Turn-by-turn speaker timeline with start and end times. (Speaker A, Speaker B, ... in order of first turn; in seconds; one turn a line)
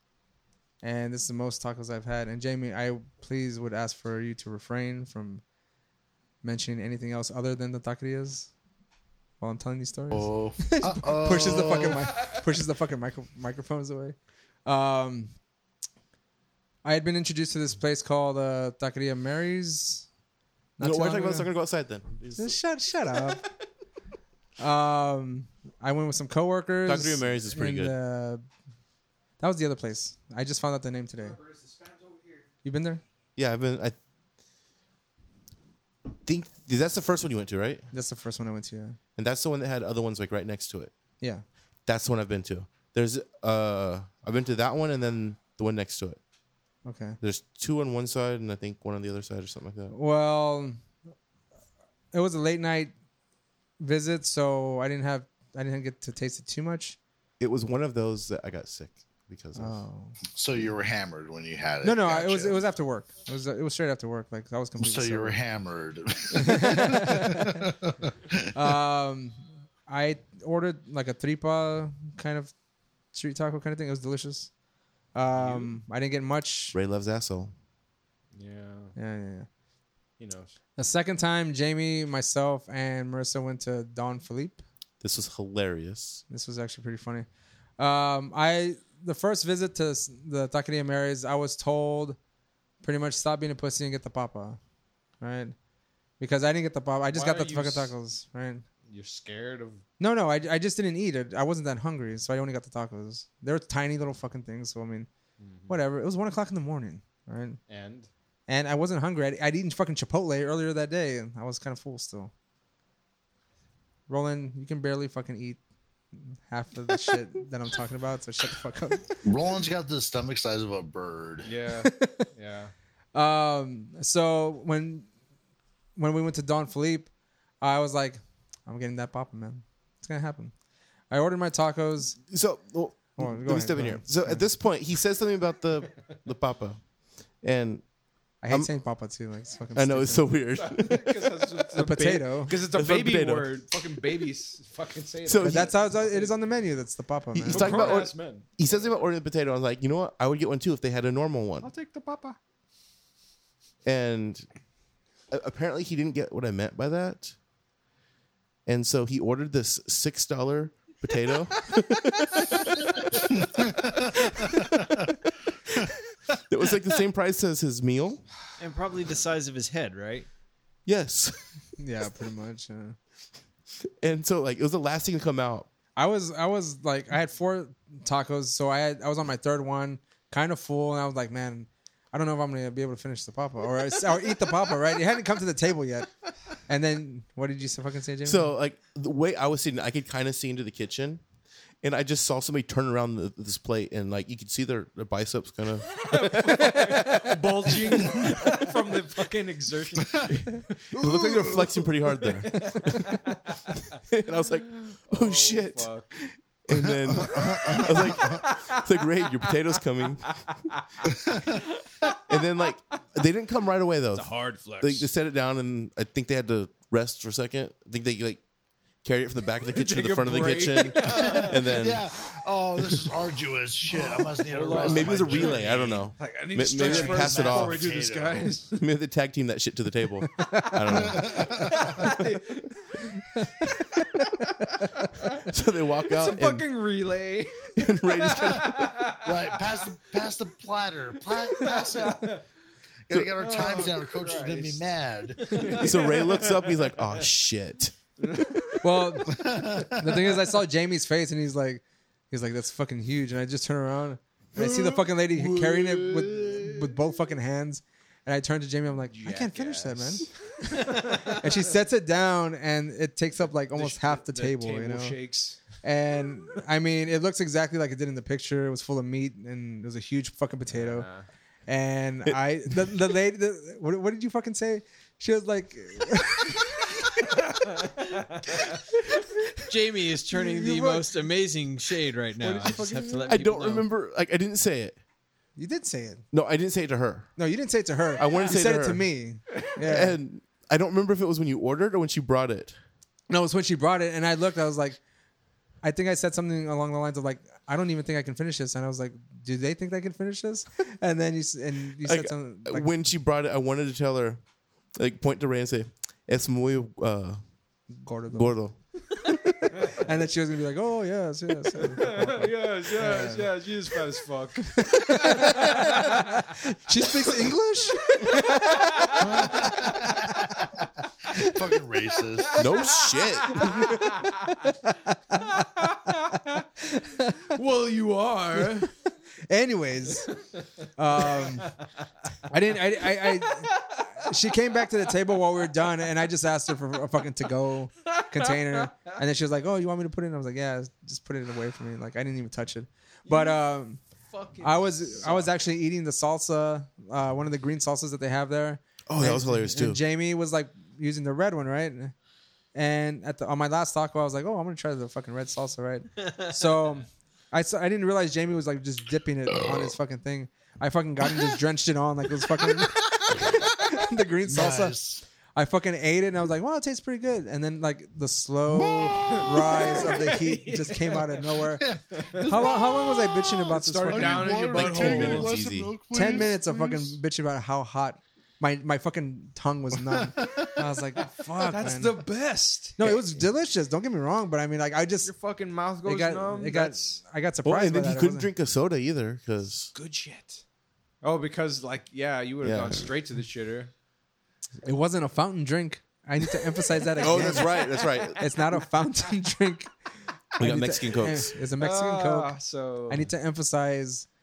Speaker A: 0.8-5.4
Speaker A: 6.4-8.5
Speaker A: 9.4-15.3
Speaker B: 10.1-12.2
Speaker A: 16.8-20.1
Speaker A: 20.8-21.5
Speaker C: 20.8-22.6
Speaker A: 22.4-23.5
Speaker A: 24.6-28.4
Speaker C: 26.8-27.9
Speaker A: 29.4-31.4
Speaker A: 32.6-33.0
Speaker C: 33.4-34.0
Speaker C: 36.2-37.9
Speaker A: 37.9-39.0
Speaker C: 39.1-40.9
Speaker C: 41.9-46.2
Speaker A: 46.8-47.2
Speaker C: 47.2-49.9
Speaker A: 49.9-50.9
Speaker A: 52.1-52.9
Speaker A: 53.8-57.0
Speaker C: 57.4-59.8
Speaker A: 59.5-60.2
Speaker B: 60.3-62.6
Speaker A: 61.8-65.4
Speaker B: 64.8-68.5
Speaker A: 66.3-67.6
Speaker A: 68.5-72.5
Speaker A: 73.1-74.5
Speaker A: 75.1-76.7
Speaker D: 75.3-75.8
Speaker C: 76.7-77.5
Speaker D: 78.3-78.9
Speaker A: 78.9-79.5
Speaker D: 80.2-80.5
Speaker A: 80.8-84.6
Speaker C: 85.0-86.2
Speaker A: 86.3-87.3
Speaker A: 87.8-92.2
Speaker A: 92.8-94.6
Speaker A: 95.2-95.5
Speaker A: 96.2-98.6
Speaker D: 97.1-97.9
Speaker D: 98.9-99.8
Speaker A: 100.0-105.1
Speaker D: 105.4-105.8
Speaker A: 105.7-107.6
Speaker D: 107.7-108.1
Speaker A: 108.5-112.3
Speaker A: 114.1-115.6
Speaker A: 116.2-119.2
Speaker B: 119.2-121.5
Speaker D: 121.4-122.7
Speaker A: 121.8-122.3
Speaker A: 123.1-125.1
Speaker A: 126.0-130.5
Speaker A: 131.1-132.2
Speaker C: 132.3-136.8
Speaker A: 133.2-134.5
Speaker C: 137.4-137.8
Speaker A: 138.4-140.3
Speaker C: 139.7-141.6
Speaker D: 140.5-146.4
Speaker A: 141.7-142.6
Speaker C: 142.6-143.5
Speaker C: 145.2-145.7
Speaker A: 145.4-148.1
Speaker C: 147.3-151.7
Speaker D: 147.4-149.0
Speaker D: 151.6-152.4
Speaker C: 153.8-154.4
Speaker C: 155.3-157.3
Speaker C: 158.7-165.1
Speaker B: 163.4-164.0
Speaker B: 164.6-164.8
Speaker C: 166.5-168.2
Speaker E: 168.6-170.3
Speaker C: 170.8-171.6
Speaker A: 171.8-173.0
Speaker C: 174.0-175.7
Speaker A: 175.9-186.1
Speaker A: 186.7-188.5
Speaker C: 188.2-191.2
Speaker C: 191.8-198.6
Speaker D: 195.9-204.0
Speaker C: 200.9-203.1
Speaker C: 203.9-205.9
Speaker D: 204.8-206.2
Speaker C: 206.6-210.4
Speaker B: 207.0-208.3
Speaker D: 207.7-209.4
Speaker D: 210.3-212.6
Speaker C: 212.2-218.4
Speaker D: 214.1-215.1
Speaker C: 219.0-222.1
Speaker D: 219.7-221.8
Speaker B: 221.0-225.8
Speaker D: 223.9-228.8
Speaker C: 224.7-227.8
Speaker B: 226.8-228.5
Speaker C: 228.7-232.4
Speaker D: 230.6-235.4
Speaker B: 231.0-231.6
Speaker C: 235.4-236.7
Speaker D: 236.1-239.6
Speaker C: 237.8-238.9
Speaker B: 239.2-242.3
Speaker D: 241.5-242.4
Speaker B: 243.1-245.9
Speaker C: 243.1-243.3
Speaker D: 243.4-244.8
Speaker D: 245.4-247.2
Speaker C: 245.7-248.4
Speaker D: 248.2-249.0
Speaker A: 248.8-265.2
Speaker B: 249.3-250.2
Speaker B: 255.7-256.1
Speaker D: 259.1-261.6
Speaker D: 263.4-265.6
Speaker A: 265.8-271.1
Speaker D: 270.7-271.2
Speaker A: 271.7-277.9
Speaker C: 272.2-272.9
Speaker D: 277.4-278.7
Speaker E: 279.7-283.9
Speaker A: 280.3-281.1
Speaker A: 282.4-283.3
Speaker D: 282.4-283.0
Speaker C: 283.2-285.0
Speaker A: 285.6-286.2
Speaker C: 286.3-287.3
Speaker A: 287.4-290.2
Speaker C: 288.1-289.1
Speaker C: 289.8-292.8
Speaker A: 293.3-295.0
Speaker A: 295.8-302.9
Speaker C: 302.0-304.4
Speaker C: 304.9-307.4
Speaker A: 307.9-308.6
Speaker C: 308.3-309.5
Speaker A: 309.7-313.6
Speaker D: 311.7-316.4
Speaker A: 314.6-320.5
Speaker D: 318.2-320.0
Speaker B: 319.2-320.3
Speaker B: 321.3-322.6
Speaker D: 322.5-324.6
Speaker C: 322.6-323.8
Speaker A: 323.6-325.5
Speaker D: 325.3-326.6
Speaker A: 326.8-327.5
Speaker D: 327.5-328.9
Speaker A: 328.6-328.9
Speaker A: 329.5-330.4
Speaker A: 330.9-331.8
Speaker D: 331.2-331.8
Speaker A: 332.5-344.0
Speaker D: 333.2-334.0
Speaker D: 338.2-338.8
Speaker D: 343.2-343.6
Speaker D: 344.2-345.5
Speaker A: 344.6-352.1
Speaker C: 349.1-350.0
Speaker A: 352.7-365.0
Speaker B: 359.6-359.9
Speaker B: 364.4-365.2
Speaker A: 365.5-371.8
Speaker B: 368.9-369.8
Speaker D: 369.2-372.8
Speaker B: 371.8-373.2
Speaker A: 372.4-375.4
Speaker D: 373.6-375.6
Speaker B: 374.1-377.2
Speaker C: 374.7-375.9
Speaker A: 376.1-382.2
Speaker B: 380.1-380.7
Speaker D: 381.3-383.0
Speaker A: 383.0-385.3
Speaker D: 385.2-387.1
Speaker A: 386.0-388.5
Speaker C: 387.6-389.9
Speaker D: 389.9-390.6
Speaker D: 391.2-393.9
Speaker C: 392.6-393.1
Speaker A: 394.8-399.9
Speaker D: 397.1-398.4
Speaker C: 397.2-398.4
Speaker A: 400.5-404.3
Speaker C: 400.6-401.5
Speaker D: 401.8-403.3